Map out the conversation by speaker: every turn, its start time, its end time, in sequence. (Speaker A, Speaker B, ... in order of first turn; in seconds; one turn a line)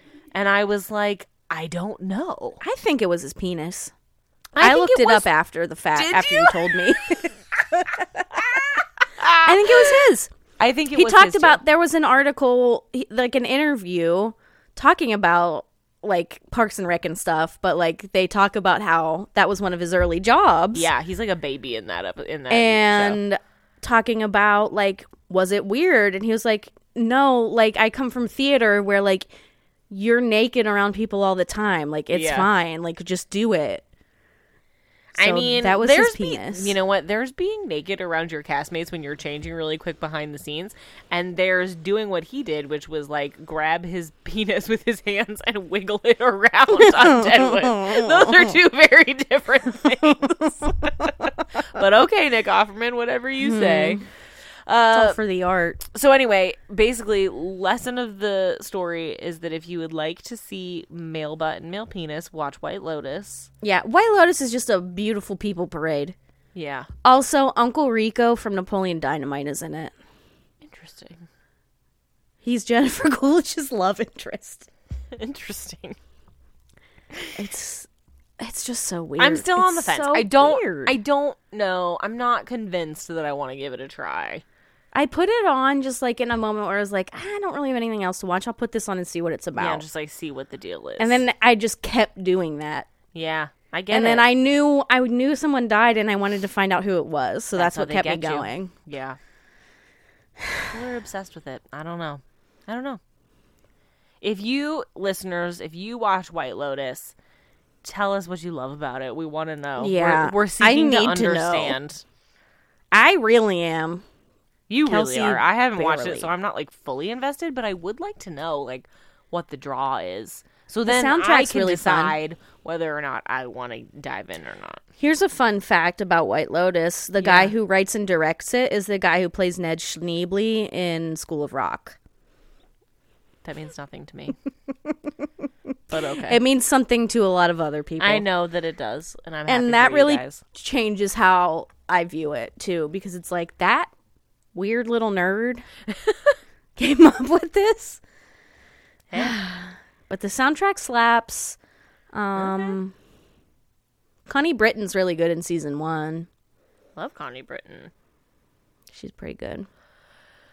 Speaker A: 0.3-2.6
Speaker B: 2.6-3.9
Speaker A: 4.5-5.3
Speaker B: 4.6-8.6
Speaker A: 5.9-7.0
Speaker A: 9.2-10.0
Speaker B: 9.4-10.3
Speaker A: 10.6-11.6
Speaker B: 10.9-20.9
Speaker A: 20.7-23.2
Speaker B: 22.5-29.3
Speaker B: 29.9-33.8
Speaker A: 32.1-32.5
Speaker A: 35.1-54.0
Speaker B: 35.2-36.8
Speaker B: 47.2-48.2
Speaker B: 53.4-54.0
Speaker A: 54.7-55.2
Speaker B: 54.9-55.8
Speaker A: 55.9-63.5
Speaker B: 63.6-66.2
Speaker A: 66.5-66.9
Speaker B: 67.0-69.9
Speaker A: 70.6-71.3
Speaker B: 72.4-74.7
Speaker A: 75.1-76.0
Speaker B: 77.3-77.9
Speaker B: 78.4-81.0
Speaker A: 79.2-84.4
Speaker B: 84.9-89.8
Speaker A: 89.6-91.2
Speaker B: 91.0-92.9
Speaker A: 93.1-94.3
Speaker B: 93.9-98.7
Speaker A: 97.5-99.2
Speaker A: 100.7-103.0
Speaker A: 104.2-107.1
Speaker A: 107.8-112.0
Speaker B: 109.8-111.8
Speaker B: 112.9-114.0
Speaker A: 114.7-124.8
Speaker B: 114.8-116.3
Speaker B: 120.9-122.2
Speaker B: 125.0-132.0
Speaker A: 127.2-127.5
Speaker A: 133.4-134.3
Speaker A: 135.9-136.4
Speaker B: 136.2-138.2
Speaker A: 138.0-140.4
Speaker B: 139.5-143.9
Speaker B: 144.5-145.6
Speaker A: 145.9-146.3
Speaker B: 146.8-148.0
Speaker A: 149.1-149.4
Speaker B: 149.1-151.6
Speaker B: 152.1-152.9
Speaker A: 152.3-152.8
Speaker B: 154.3-156.3
Speaker A: 156.9-157.9
Speaker B: 158.9-159.7